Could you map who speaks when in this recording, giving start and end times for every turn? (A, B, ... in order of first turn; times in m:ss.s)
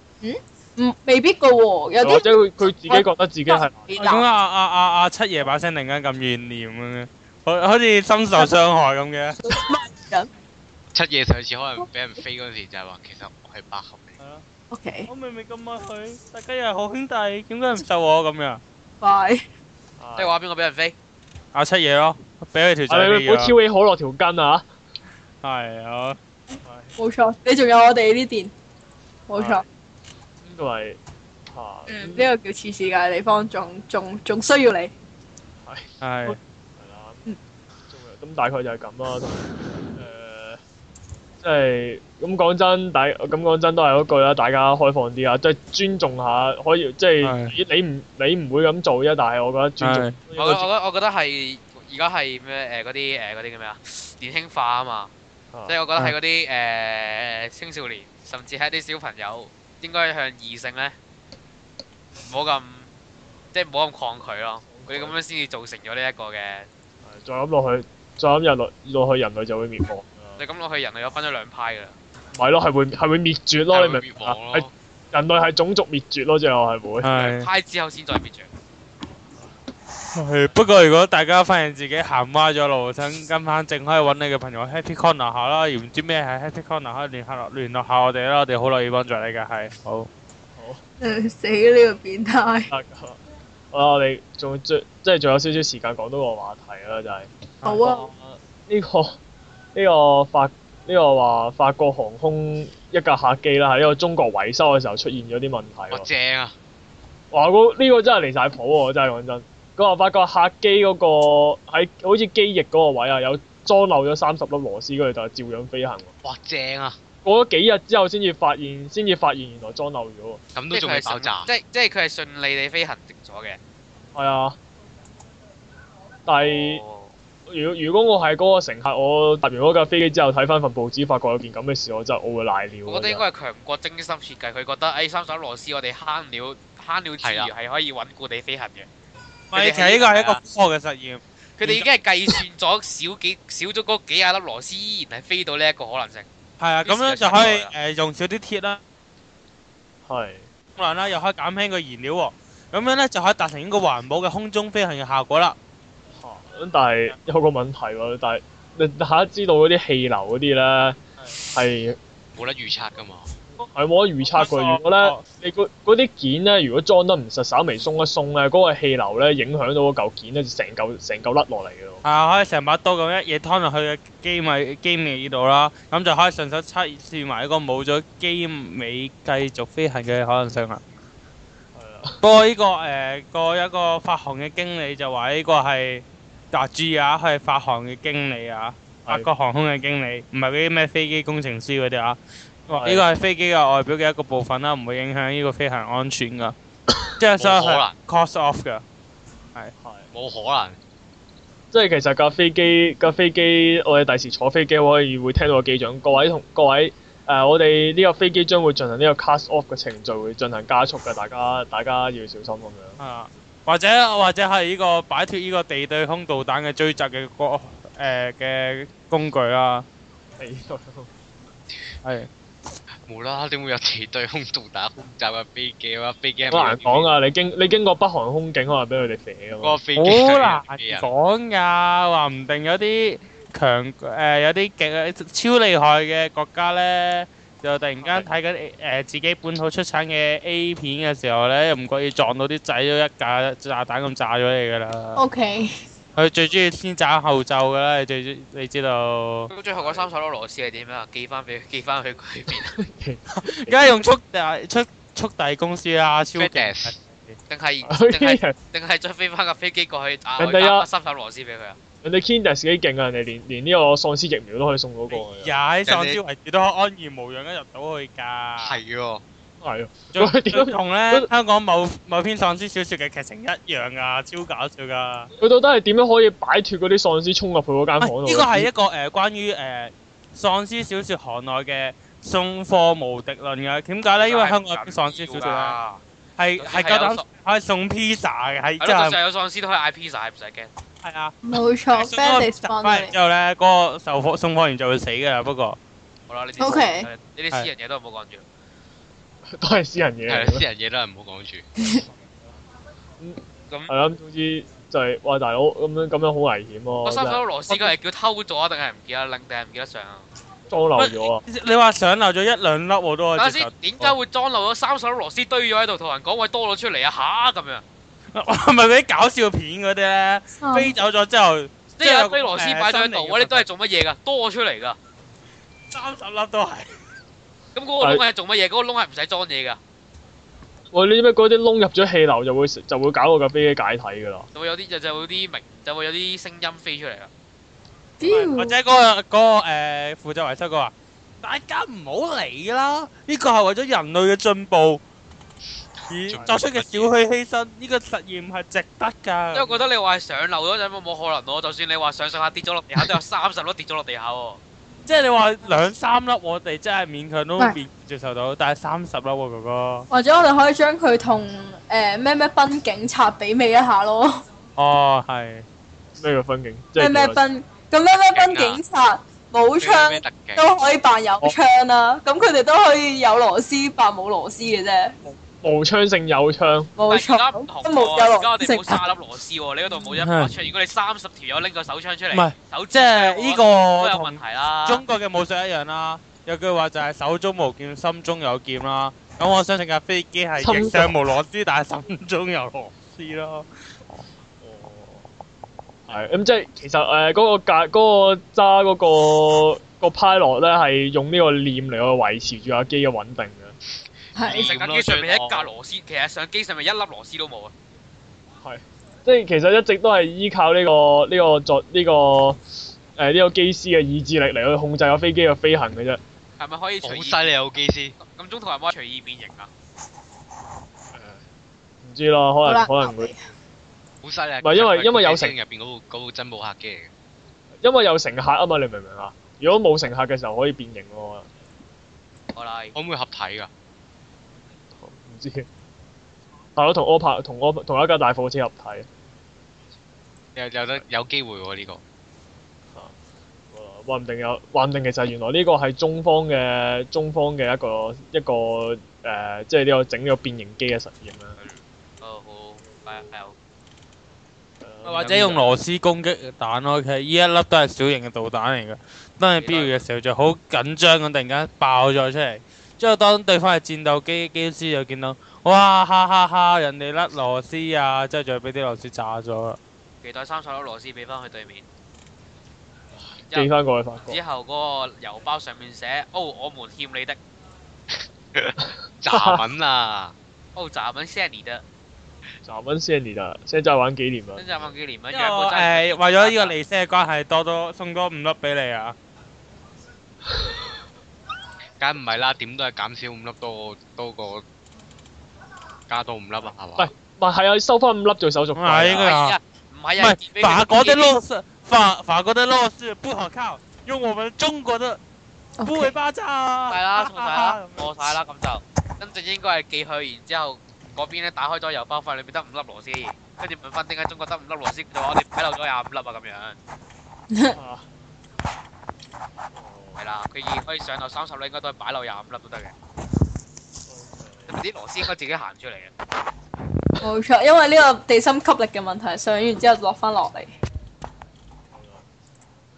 0:00.2-0:02.4 A
0:02.0-0:03.9 B
0:02.9-0:04.2 A
0:04.0-0:09.5 C
0:09.5-0:10.3 A
0:10.9-0:14.2 D
0:14.7-0:15.1 A
0:15.1-0:18.6 C
0:19.0-0:19.4 A
0:20.0-0:20.3 B
0:20.2-0:20.9 E
0:21.5-0:23.5 C
0:22.9-0:24.6 B
0:25.4-0:26.2 C
0:26.6-0:26.9 B
0:27.0-0:28.5 A
0:29.3-0:29.6 A
0:29.3-0:29.6 B
0:30.4-0:31.0 B
0:31.5-0:32.3 B
0:31.9-0:34.9 A
0:35.6-0:37.2 B
0:36.0-0:36.4 C
0:37.9-0:39.4 B
0:39.9-0:40.6 B
0:41.4-0:50.7 B
0:47.2-0:47.6 C
0:49.8-0:50.2 C
0:50.4-0:55.1 E
0:55.5-0:55.8 B
0:55.7-1:00.9 E
1:02.2-1:02.9 E
1:03.5-1:06.7 E
1:04.7-1:05.2 B
1:07.0-1:10.4 B
1:10.4-1:11.9 E
1:12.3-1:17.1 B
1:13.7-1:14.7 D
1:17.0-1:17.5 C
1:17.1-1:18.5 E
1:20.1-1:30.1 C
1:30.6-1:30.8 B
1:31.0-1:32.7 A
1:32.7-1:33.2 B
1:33.7-1:37.3 B
1:37.6-1:38.1 C
1:37.6-1:38.1 A
1:38.1-1:39.2 B
1:39.7-1:46.1 B
1:45.9-1:46.5 D
1:47.3-1:56.1 B
1:56.2-1:57.0 D
1:57.2-2:00.4 B
2:00.5-2:01.5 D
2:00.7-2:03.6 E
2:04.1-2:04.6 B
2:06.2-2:06.8 B
2:06.4-2:07.1 E
2:07.5-2:13.2 B
2:12.9-2:18.9 E
2:17.2-2:17.5 D
2:19.5-2:22.4 C
2:19.5-2:20.4 E
2:21.6-2:26.2 E
2:26.6-2:28.8 C
2:26.8-2:27.7 E
2:30.1-2:30.5 B
2:30.8-2:35.6 C
2:36.2-2:42.0 B
2:42.4-2:43.3 D
2:43.6-2:52.0 B
2:44.3-2:45.2 C
2:52.0-3:00.8 C
3:01.7-3:02.2 B
3:02.2-3:16.5 C
3:12.7-3:13.0 B
3:17.2-3:18.8 C
3:17.4-3:18.0 D
3:19.8-3:20.1 B
3:20.1-3:20.8 D
3:21.7-3:33.0 B
3:33.0-3:39.8 C
3:40.4-3:41.1 B
3:42.0-3:42.3 C
3:43.1-3:47.1 D
3:46.5-3:49.8 B
3:49.6-3:51.1 D
3:50.0-4:05.2 C
4:05.2-4:05.7 A
4:06.1-4:09.5 C
4:09.5-4:12.7 E
4:12.5-4:13.8 B
4:13.3-4:17.4 C
4:16.3-4:17.0 D
4:17.5-4:21.8 E
4:17.8-4:18.6 B
4:20.4-4:20.9 B
4:22.0-4:25.6 B
4:25.1-4:28.8 C
4:25.8-4:26.2 D
4:28.6-4:29.2 D
4:29.6-4:31.3 B
4:30.1-4:35.3 C
4:35.4-4:38.7 B
4:38.0-4:45.8 C
4:44.2-4:46.0 E
4:46.4-4:49.2 C
4:46.6-4:47.2 E
4:48.8-4:50.7 E
4:51.0-4:51.3 C
4:51.4-4:53.1 A
4:51.9-4:55.8 C
4:56.3-4:58.4 E
4:56.6-4:57.1 A
4:59.5-5:00.6 B
5:00.3-5:01.6 D
5:03.2-5:07.9 B
5:07.0-5:10.2 E
5:10.7-5:11.4 B
5:11.0-5:14.1 C
5:13.4-5:17.8 E
5:18.3-5:23.6 C
5:20.6-5:20.9 A
5:22.0-5:25.0 E
5:25.9-5:27.0 C
5:27.7-5:29.8 E
5:30.9-5:34.5 B
5:34.5-5:37.3 E
5:38.2-5:38.8 A
5:38.4-5:45.0 C
5:46.0-5:47.1 D
5:46.1-5:49.8 C
5:49.5-5:54.6 E
5:55.0-6:00.0 C
6:00.1-6:04.4 A
6:04.8-6:05.6 C
6:06.2-6:07.4 B
6:07.0-6:15.1 A
6:08.2-6:08.8 D
6:09.8-6:10.7 D
6:15.6-6:16.9 B
6:17.0-6:19.1 A
6:17.1-6:25.0 E
6:20.2-6:20.5 C
6:22.3-6:33.7 C
6:30.6-6:31.2 B
6:34.6-6:35.2 B
6:36.1-6:43.8 B
6:44.3-6:45.7 D
6:44.4-6:44.7 A
6:44.5-6:47.7 E
6:48.6-6:52.6 B
6:53.2-6:56.2 B
6:56.6-6:57.6 E
6:57.0-6:58.2 D
6:58.2-6:59.7 E
7:01.1-7:01.4 B
7:02.0-7:03.4 B
7:02.6-7:03.4 A
7:04.2-7:07.1 D
7:04.6-7:05.5 B
7:07.8-7:11.5 B
7:12.5-7:12.9 E
7:12.9-7:13.7 D
7:15.0-7:15.7 B
7:16.8-7:19.1 B
7:20.6-7:22.0 D
7:23.7-7:31.6 B
7:31.6-7:33.5 E
7:34.8-7:35.6 B
7:35.0-7:35.7 E
7:35.2-7:49.8 C
7:39.6-7:40.0 E
7:50.2-7:51.8 E
7:53.4-7:54.4 B
7:54.2-7:57.4 E
7:58.1-8:00.3 D
7:59.3-7:59.6 B
8:00.8-8:01.8 E
8:02.6-8:04.9 B
8:04.6-8:06.7 E
8:05.3-8:09.1 C
8:12.0-8:14.6 D
8:16.1-8:17.1 D
8:17.0-8:19.3 B
8:18.8-8:19.6 C
8:19.2-8:21.3 E
8:20.2-8:25.2 C
8:25.8-8:26.1 A
8:25.8-8:28.3 C
8:26.9-8:36.8 E
8:37.7-8:38.0 B
8:39.7-8:40.2 B
8:40.2-8:42.9 E
8:44.1-8:44.8 B
8:44.7-8:46.1 E
8:47.2-8:50.7 A
8:51.9-8:52.2 B